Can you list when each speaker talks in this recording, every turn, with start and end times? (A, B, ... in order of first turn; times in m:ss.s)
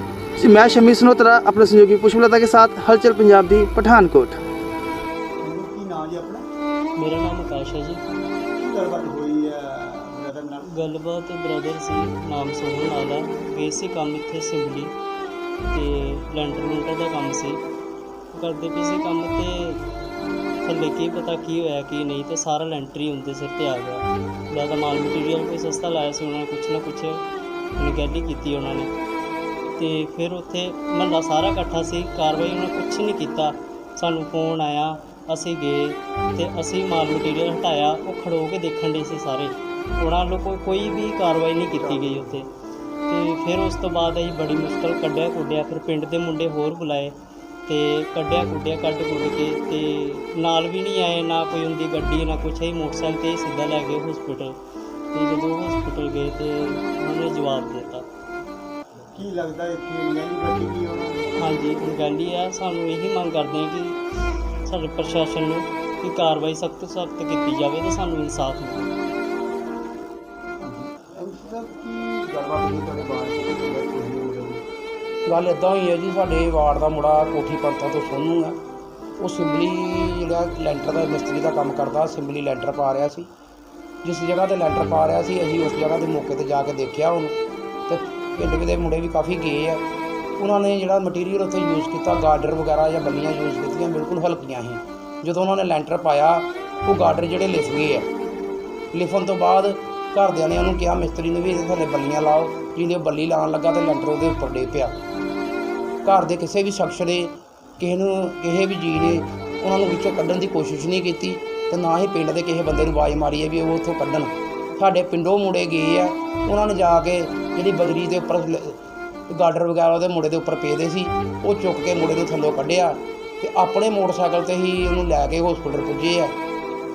0:00.4-0:04.4 A
0:05.4-0:06.4 B
0:07.0-0:08.0 C
0:08.6-0:10.7 B
0:10.7-0:14.9 C
0:15.7-0:17.6 C
0:18.3-0:19.8 C
0:20.6-0:27.2 C
0:27.8-0:28.9 C
0:29.8-0:42.5 C
0:43.1-0:54.6 C
0:55.1-0:58.1 C
0:59.1-1:01.2 B
1:01.4-1:04.0 C
1:04.6-1:08.9 C
1:10.6-1:14.6 B
1:15.3-1:18.6 D
1:19.2-1:23.3 D
1:24.0-1:27.4 D
1:27.9-1:29.8 D
1:30.4-1:38.1 D
1:38.9-1:45.0 D
1:46.0-1:58.8 D
1:59.3-2:06.4 D